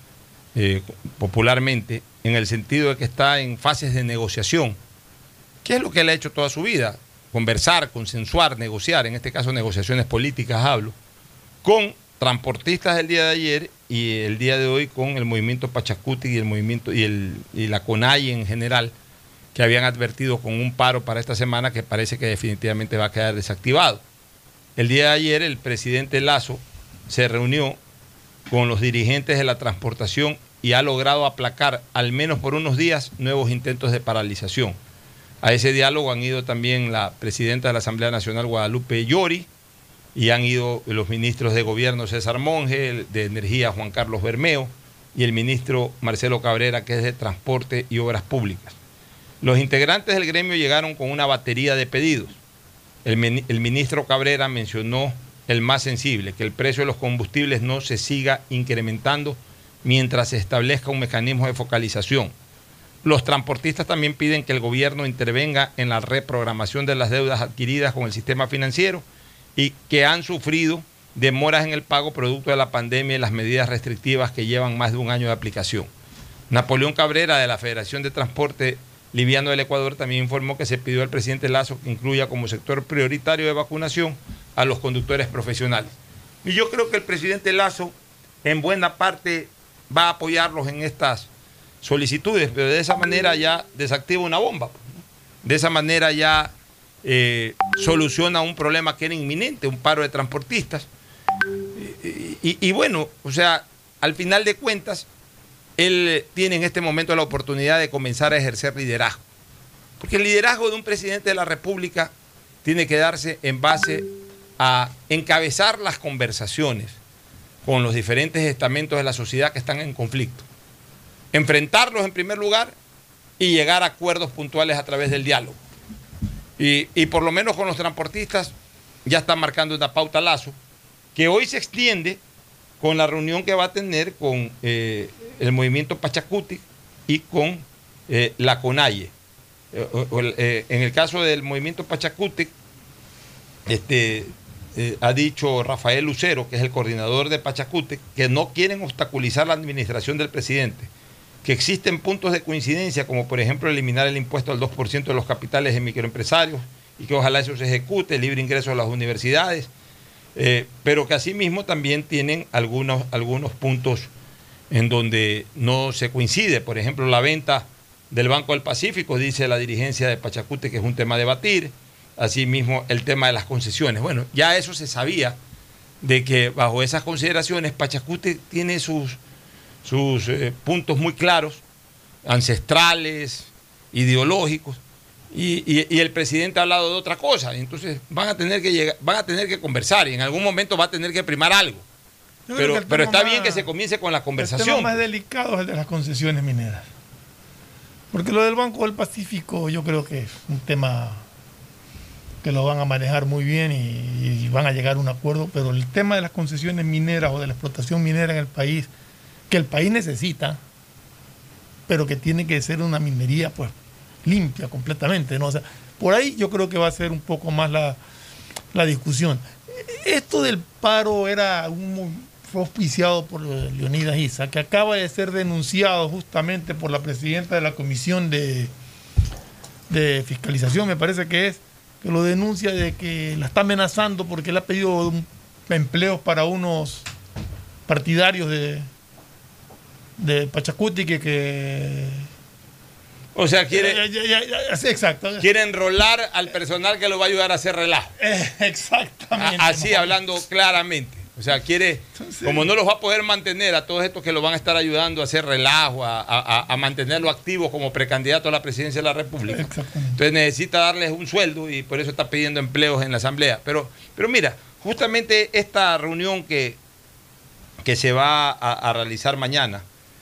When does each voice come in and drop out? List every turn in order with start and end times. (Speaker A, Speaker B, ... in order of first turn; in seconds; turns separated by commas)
Speaker A: 0.5-4.8, Speaker A: 5.6-10.9, Speaker A: 11.6-18.9, Speaker A: 19.5-24.0, Speaker A: 24.8-27.8, Speaker A: 28.5-34.8, Speaker A: 35.4-39.5, Speaker A: 40.1-48.8, Speaker A: 49.4-52.4, Speaker A: 53.0-62.3, Speaker A: 63.0-69.0, Speaker A: 69.5-75.9, Speaker A: 76.5-91.3, Speaker A: 91.8-96.5, Speaker A: 97.0-100.9, Speaker A: 101.7-105.0, Speaker A: 105.8-109.2, Speaker A: 110.0-112.1, Speaker A: 112.6-114.1, Speaker A: 114.6-117.0, Speaker A: 117.6-120.4, Speaker A: 121.3-122.7, Speaker A: 123.4-125.6, Speaker A: 126.6-128.5, Speaker A: 129.0-130.6, Speaker A: 131.1-132.2, Speaker A: 132.8-139.1, Speaker A: 139.7-142.5, Speaker A: 143.7-150.9, Speaker A: 151.4-159.7, Speaker A: 160.3-164.1, Speaker A: 164.7-175.4, Speaker A: 176.0-179.2, Speaker A: 179.8-181.6, Speaker A: 182.2-184.8, Speaker A: 185.3-191.8, Speaker B: 192.5-193.7, Speaker A: 192.6-194.9, Speaker B: 194.4-196.9, Speaker B: 198.1-201.2, Speaker B: 202.4-208.9, Speaker B: 209.5-210.6, Speaker B: 211.9-213.7, Speaker B: 214.2-218.0, Speaker B: 218.7-228.7, Speaker B: 229.9-237.1, Speaker B: 237.9-238.9, Speaker B: 240.2-242.3, Speaker A: 243.3-244.0, Speaker B: 243.7-245.4, Speaker A: 245.4-248.1, Speaker B: 248.2-250.1, Speaker A: 249.3-266.8, Speaker B: 252.2-252.7, Speaker B: 259.5-260.2, Speaker A: 267.8-269.8